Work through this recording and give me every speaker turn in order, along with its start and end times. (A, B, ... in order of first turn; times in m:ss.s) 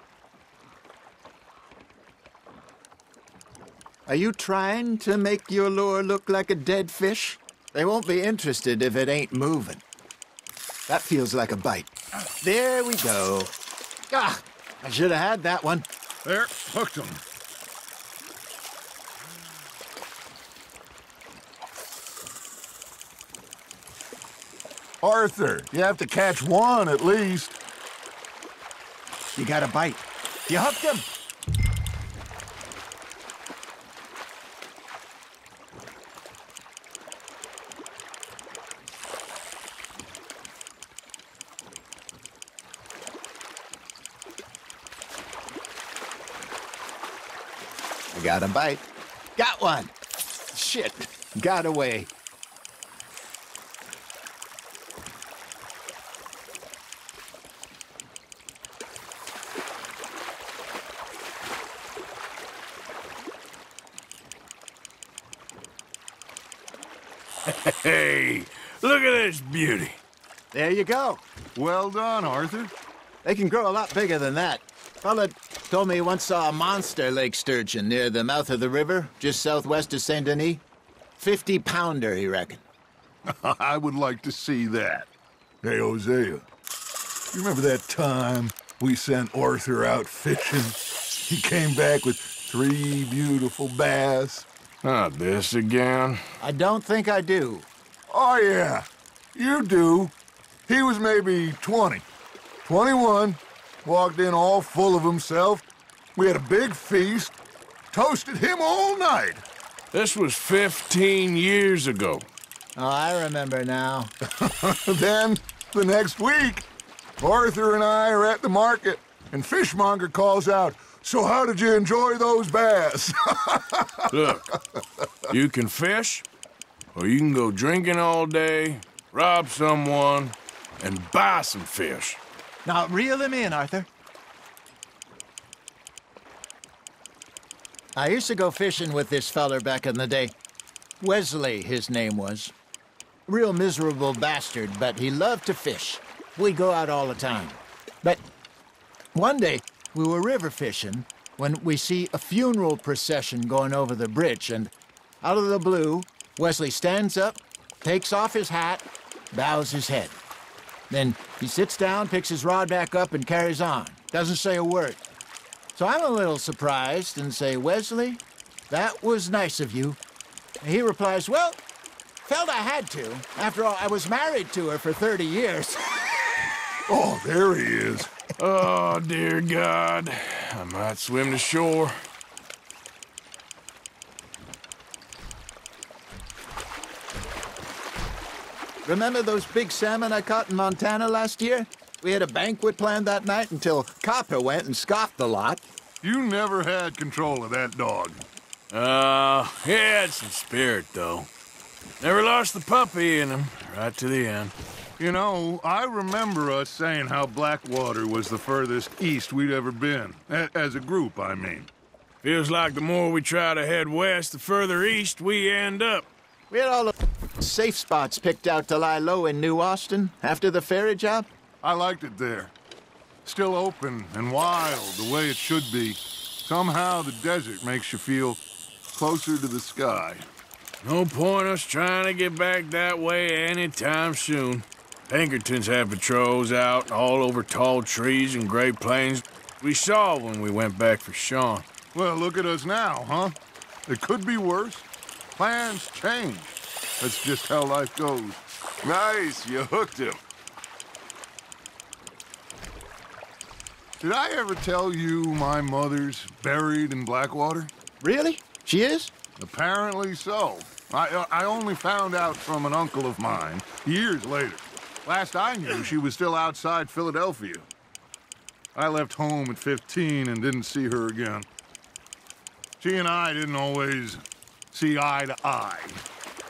0:04.1-0:09.8 A
0:10.9-0:11.9 A
0:12.4-0:13.5 A
0:14.1-0:15.9 A
0:16.2-0:17.2 B
0:25.0-0:27.6 B
0:29.4-0:31.1 A
0:48.1-0:48.8 A
0:49.4-0:49.9 A
0:50.5-0:52.1 A
1:07.5-1:10.0 C
1:10.5-1:11.2 A
1:11.6-1:12.7 B
1:13.2-1:20.6 A
1:21.2-1:22.6 A
1:23.3-1:25.1 B
1:25.6-1:26.4 B
1:27.3-1:34.5 B
1:34.8-1:36.2 C
1:36.4-1:37.7 A
1:38.1-1:40.1 B
1:40.7-1:42.0 B
1:42.6-1:45.6 B
1:46.2-1:47.3 B
1:47.9-1:49.4 B
1:49.9-1:52.3 C
1:52.8-1:54.1 A
1:54.3-1:56.6 B
1:57.2-2:04.8 B
2:04.1-2:04.4 C
2:05.3-2:06.2 C
2:06.9-2:12.2 C
2:12.6-2:13.9 A
2:18.0-2:20.3 A
2:21.0-2:22.5 A
2:23.3-2:28.2 A
2:29.1-2:40.2 A
2:40.9-2:45.0 A
2:45.8-2:50.0 A
2:50.6-2:51.6 A
2:52.2-2:56.1 A
2:56.9-2:58.1 B
2:58.4-3:02.0 C
3:08.8-3:15.6 A
3:16.0-3:18.2 B
3:18.7-3:21.3 C
3:22.0-3:24.5 C
3:25.0-3:31.7 B
3:32.2-3:36.1 C
3:36.5-3:41.3 A
3:41.6-3:42.5 B
3:43.2-3:48.4 B
3:48.9-3:50.3 B
3:50.8-4:01.6 C
4:01.9-4:03.4 B
4:03.9-4:10.2 B
4:14.0-4:17.7 B
4:18.0-4:19.1 A
4:19.4-4:27.7 B
4:28.8-4:31.5 B
4:32.8-4:34.2 B
4:34.7-4:36.0 B